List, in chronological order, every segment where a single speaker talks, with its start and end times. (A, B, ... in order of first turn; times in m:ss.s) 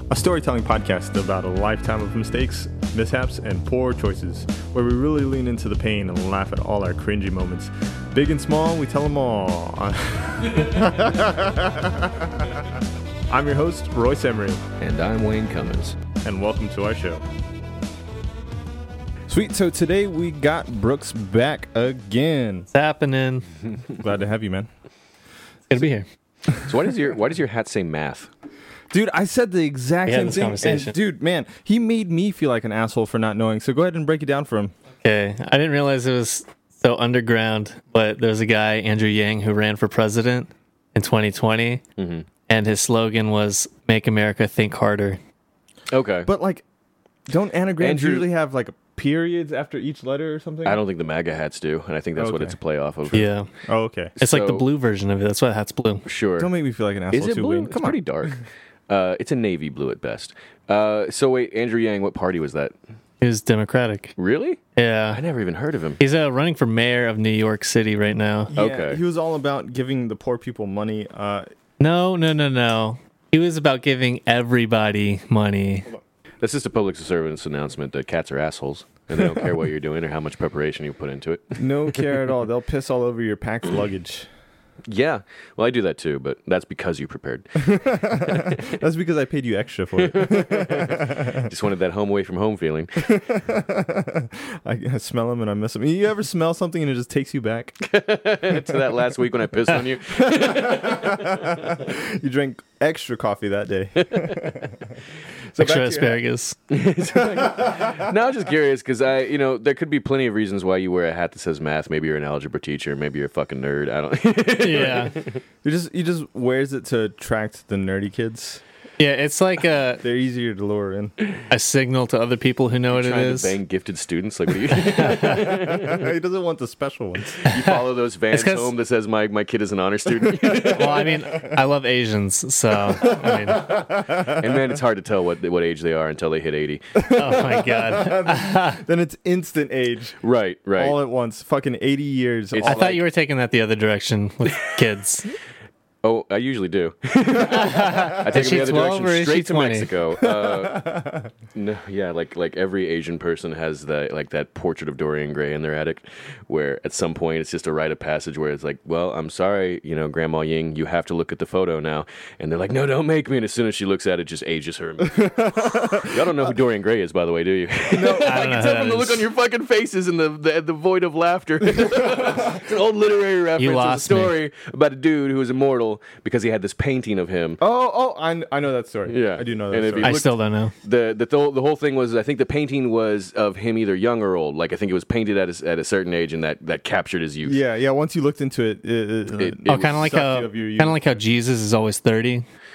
0:00.1-0:12.6 A
0:10.6-0:10.9 B
0:13.3-0:14.6 A
0:14.8-0:16.0 B
0:16.2-0:17.2 A
0:19.3-0:22.7 A
0:22.7-0:23.5 C
0:23.9-0:24.7 A
0:25.7-0:26.0 C
0:26.5-0:26.8 A
0:26.6-0:28.3 B
0:28.9-0:34.7 A
0:30.0-0:30.9 C
0:35.0-0:41.8 C
0:42.0-0:42.2 B
0:42.5-0:45.2 C
0:45.9-0:46.3 B
0:46.2-0:46.6 A
0:47.3-0:50.8 A
0:47.8-0:48.2 B
0:50.7-0:53.3 B
0:52.2-0:52.6 A
0:53.1-0:54.2 A
0:53.1-0:53.5 C
0:54.2-0:54.6 B
0:54.2-0:56.0 C
0:56.0-0:56.5 B
0:56.4-0:58.4 A
0:57.1-1:02.7 B
1:03.2-1:04.1 C
1:04.2-1:04.6 B
1:04.8-1:05.2 C
1:05.1-1:06.0 B
1:06.0-1:08.5 C
1:08.5-1:11.4 A
1:08.6-1:09.0 B
1:11.8-1:15.9 C
1:16.4-1:22.0 B
1:19.2-1:19.4 A
1:21.6-1:24.3 A
1:24.9-1:28.8 B
1:27.6-1:31.5 A
1:30.0-1:33.2 B
1:33.0-1:37.8 A
1:37.8-1:41.8 B
1:38.5-1:38.8 A
1:39.7-1:45.0 A
1:44.0-1:44.4 B
1:45.6-1:46.2 A
1:45.6-1:46.6 C
1:46.7-1:55.4 B
1:47.1-1:48.1 A
1:54.6-1:55.1 C
1:54.7-1:55.1 A
1:55.6-1:58.6 A
1:59.0-2:00.0 C
2:00.0-2:01.1 A
2:01.5-2:03.5 C
2:02.9-2:06.1 B
2:05.0-2:05.3 C
2:05.1-2:07.4 A
2:07.4-2:11.1 B
2:07.4-2:07.8 C
2:08.3-2:08.7 C
2:10.4-2:11.5 A
2:10.8-2:13.8 C
2:12.8-2:14.8 A
2:14.3-2:17.5 B
2:17.1-2:20.2 A
2:17.1-2:18.8 C
2:20.2-2:21.0 B
2:20.8-2:23.0 A
2:22.5-2:23.0 B
2:22.6-2:25.3 C
2:26.0-2:30.9 B
2:27.4-2:29.9 C
2:27.6-2:28.2 A
2:30.2-2:31.3 A
2:31.6-2:57.6 B
2:45.1-2:46.5 A
2:47.9-2:48.5 A
2:48.2-2:49.2 C
2:51.8-2:52.6 A
2:53.6-2:54.3 C
2:57.6-3:00.2 A
2:59.1-3:07.6 B
3:00.0-3:00.7 C
3:07.4-3:11.0 A
3:09.3-3:10.1 B
3:09.7-3:12.4 C